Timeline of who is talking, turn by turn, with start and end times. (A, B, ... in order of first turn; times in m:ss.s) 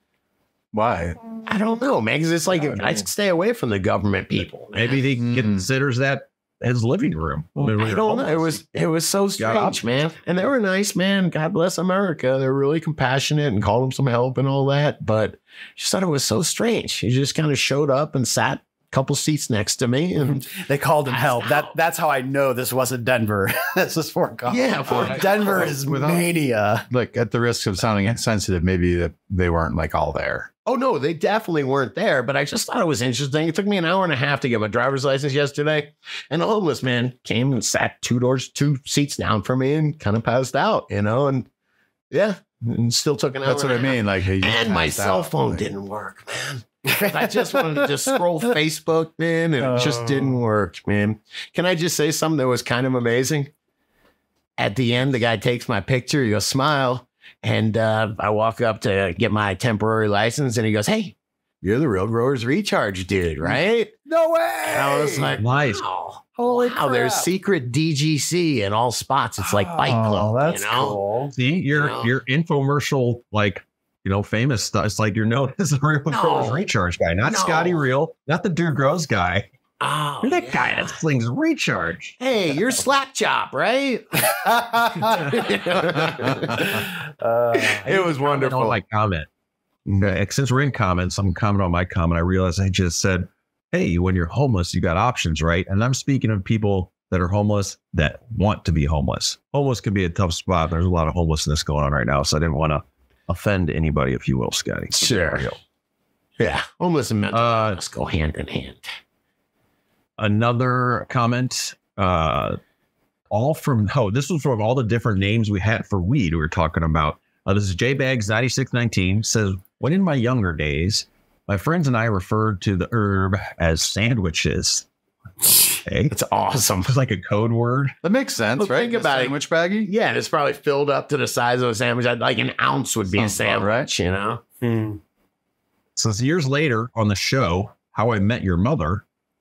0:00.7-0:01.2 A
0:01.4-0:05.0 B
0:04.7-0:08.6 C
0:05.2-0:05.6 A
0:07.6-0:20.5 B
0:09.4-0:09.8 C
0:20.2-0:26.8 D
0:21.0-0:21.7 B
0:24.5-0:25.7 B
0:24.9-0:26.3 A
0:26.9-0:30.5 A
0:30.6-0:41.5 B
0:42.1-0:53.5 B
0:43.4-0:45.6 A
0:49.6-0:50.0 D
0:49.7-0:50.2 A
0:54.6-1:03.9 B
1:03.4-1:05.4 D
1:04.7-1:11.0 B
1:05.4-1:05.8 C
1:06.4-1:07.3 D
1:09.4-1:10.0 D
1:09.8-1:10.8 A
1:10.7-1:11.3 D
1:11.3-1:19.5 C
1:11.7-1:12.1 B
1:16.1-1:16.6 B
1:17.2-1:17.8 B
1:19.8-1:21.0 B
1:20.2-1:22.2 C
1:22.2-1:26.9 B
1:27.2-1:27.8 D
1:27.5-1:28.8 B
1:27.8-1:29.3 C
1:29.9-1:45.6 C
1:44.9-1:45.4 B
1:46.4-1:48.9 B
1:47.3-1:47.8 C
1:50.2-1:52.6 C
1:53.3-2:04.8 C
2:05.8-2:06.1 C
2:06.1-2:06.9 B
2:06.8-2:08.0 C
2:08.0-2:09.9 A
2:08.6-2:14.4 B
2:13.1-2:13.9 A
2:14.6-2:15.0 D
2:16.0-2:19.0 C